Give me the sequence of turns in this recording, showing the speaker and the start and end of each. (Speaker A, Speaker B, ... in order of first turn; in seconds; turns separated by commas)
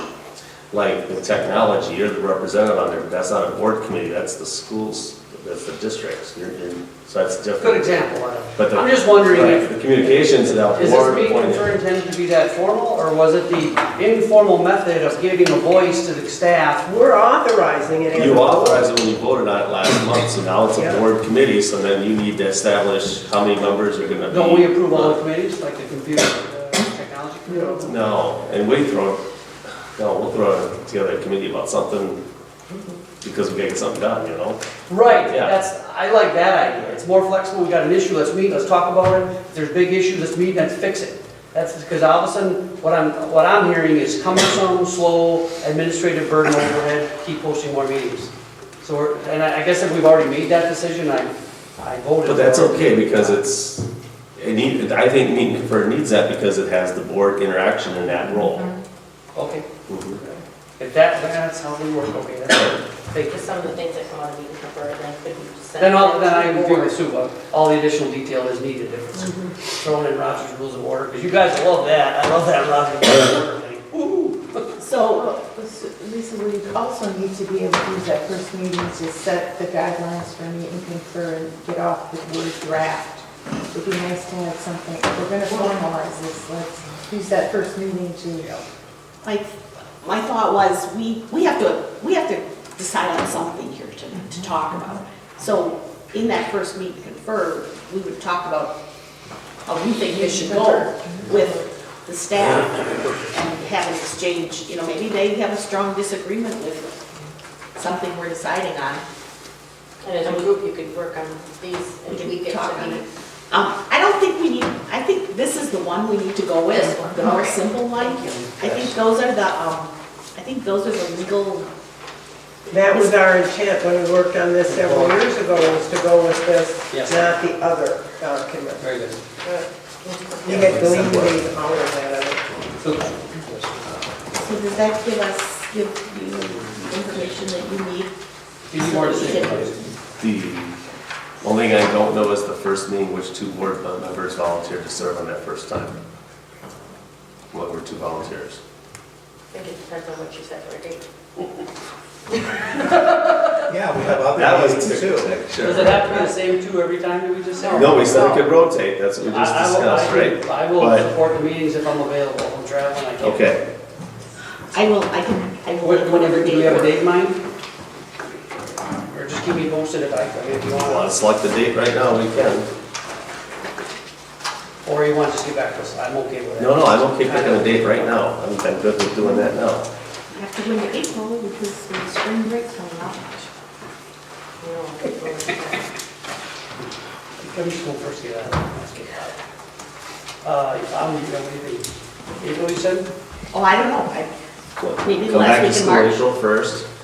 Speaker A: 0.7-11.7, Speaker B: 7.6-16.9, Speaker C: 16.9-18.9, Speaker A: 18.1-25.2, Speaker C: 20.8-21.0, Speaker B: 24.3-28.2, Speaker C: 27.5-27.8, Speaker A: 27.8-29.2, Speaker A: 29.9-32.2, Speaker A: 33.2-35.5, Speaker B: 34.9-53.4, Speaker A: 52.2-58.7, Speaker B: 59.3-59.6, Speaker A: 59.9-60.2, Speaker B: 60.8-63.5, Speaker D: 63.3-67.0, Speaker B: 65.8-74.6, Speaker E: 74.8-75.3, Speaker F: 75.0-88.6, Speaker E: 89.2-98.8, Speaker F: 94.1-95.0, Speaker E: 99.7-107.0, Speaker F: 100.1-101.3, Speaker D: 101.4-101.7, Speaker B: 102.4-103.5, Speaker E: 107.8-109.0, Speaker D: 110.0-113.0, Speaker E: 110.2-110.5, Speaker E: 112.1-121.7, Speaker D: 117.0-118.5, Speaker C: 122.7-128.8, Speaker B: 124.7-125.6, Speaker B: 126.9-127.2, Speaker B: 128.8-129.2, Speaker C: 130.4-132.5, Speaker G: 130.5-131.3, Speaker A: 130.6-131.1, Speaker B: 132.8-134.0, Speaker E: 134.3-138.1, Speaker B: 138.7-139.9, Speaker E: 138.8-139.8, Speaker A: 140.2-140.7, Speaker A: 141.4-146.0, Speaker A: 147.5-148.6, Speaker D: 149.5-151.0, Speaker G: 153.7-155.3, Speaker A: 154.2-156.0, Speaker B: 155.6-158.4, Speaker A: 157.7-161.1, Speaker D: 158.2-158.4, Speaker B: 159.2-163.4, Speaker A: 163.2-163.6, Speaker E: 164.7-167.0, Speaker B: 165.8-167.4, Speaker B: 169.1-171.1, Speaker A: 170.6-172.7, Speaker B: 174.8-178.2, Speaker A: 176.6-179.9, Speaker E: 180.3-183.5, Speaker D: 184.6-185.8, Speaker B: 187.4-189.3, Speaker B: 190.4-191.9, Speaker B: 192.4-193.1, Speaker E: 193.5-194.3, Speaker A: 194.8-196.9, Speaker E: 195.0-196.2